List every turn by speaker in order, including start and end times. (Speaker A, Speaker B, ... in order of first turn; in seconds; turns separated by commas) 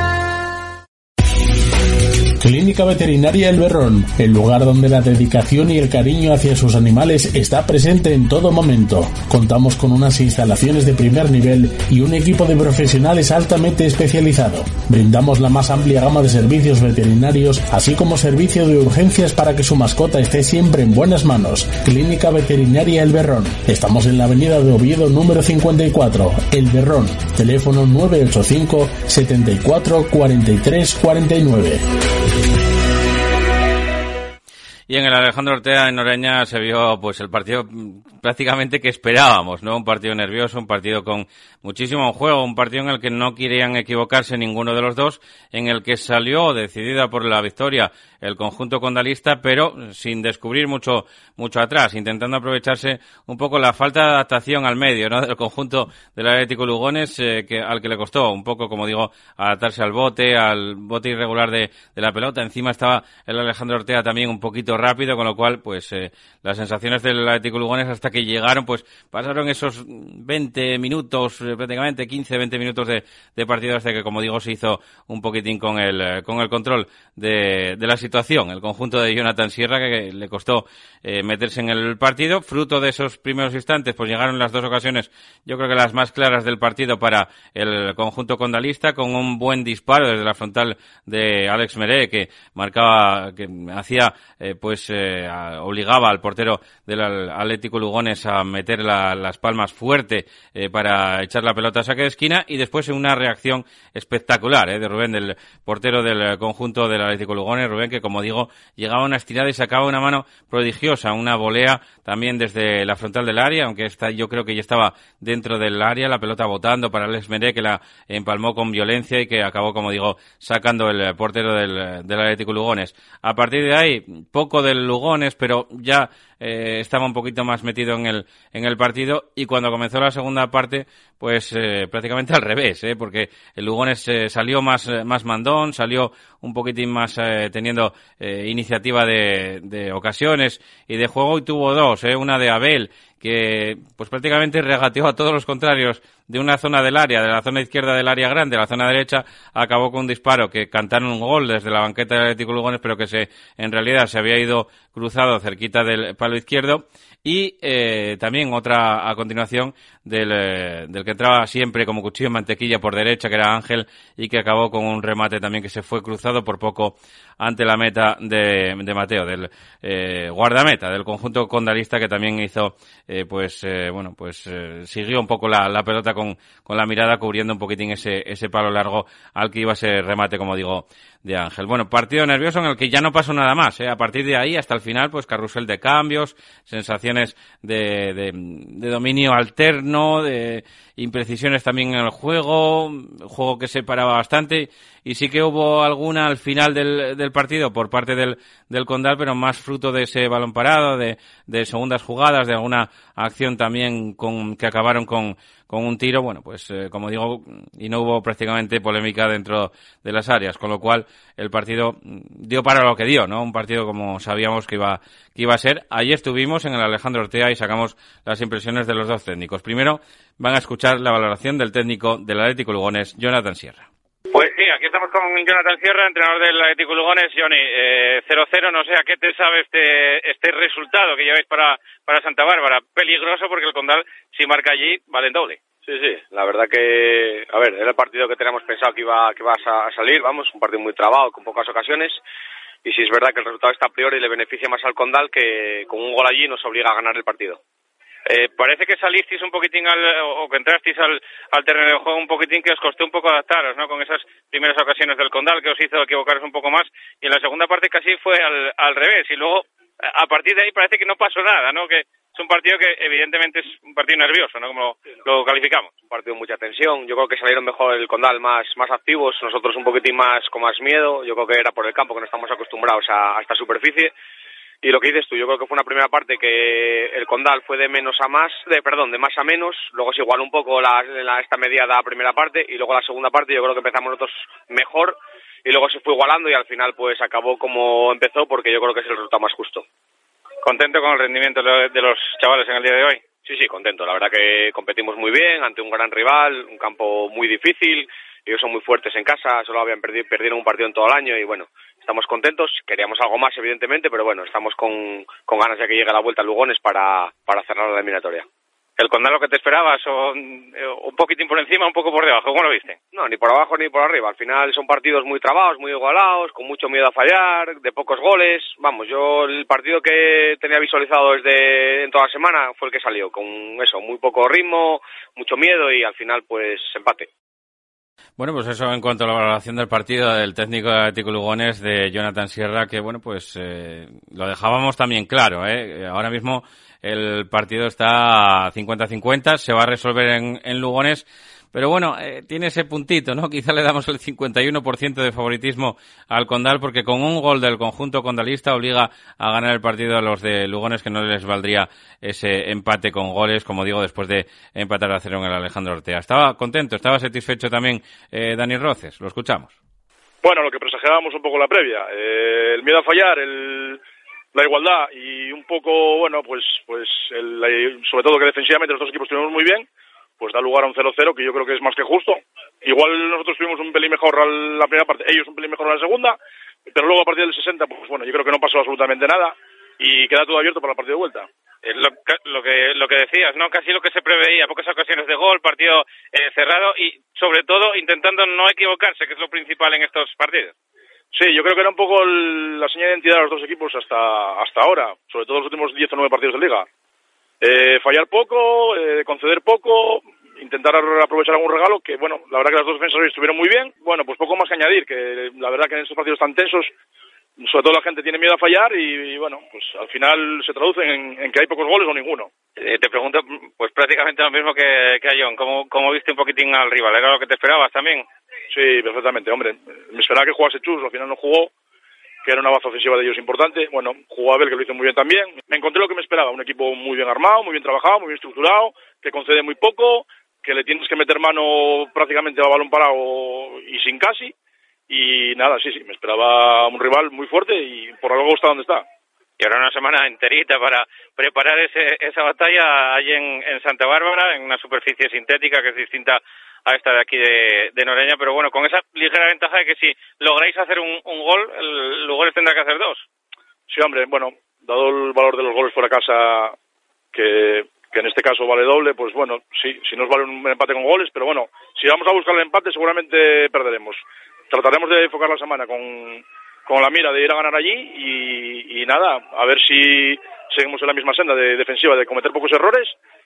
Speaker A: 2.4-31.9, Speaker B: 34.9-223.9, Speaker C: 224.3-235.6, Speaker D: 235.8-242.2, Speaker D: 242.8-247.6, Speaker C: 248.3-265.9, Speaker D: 266.1-274.1, Speaker D: 274.8-289.9, Speaker C: 290.6-293.3, Speaker D: 293.4-308.5, Speaker C: 309.0-313.0, Speaker D: 313.1-327.3, Speaker B: 328.4-359.7, Speaker E: 360.4-364.0, Speaker E: 364.5-369.9, Speaker E: 370.4-381.5, Speaker C: 381.8-390.7, Speaker E: 391.3-396.9, Speaker E: 397.6-406.9, Speaker E: 407.6-412.5, Speaker C: 412.8-418.2, Speaker E: 418.7-421.7, Speaker E: 422.4-434.5, Speaker E: 435.1-439.1, Speaker C: 439.6-453.2, Speaker E: 453.9-456.8, Speaker E: 457.3-473.2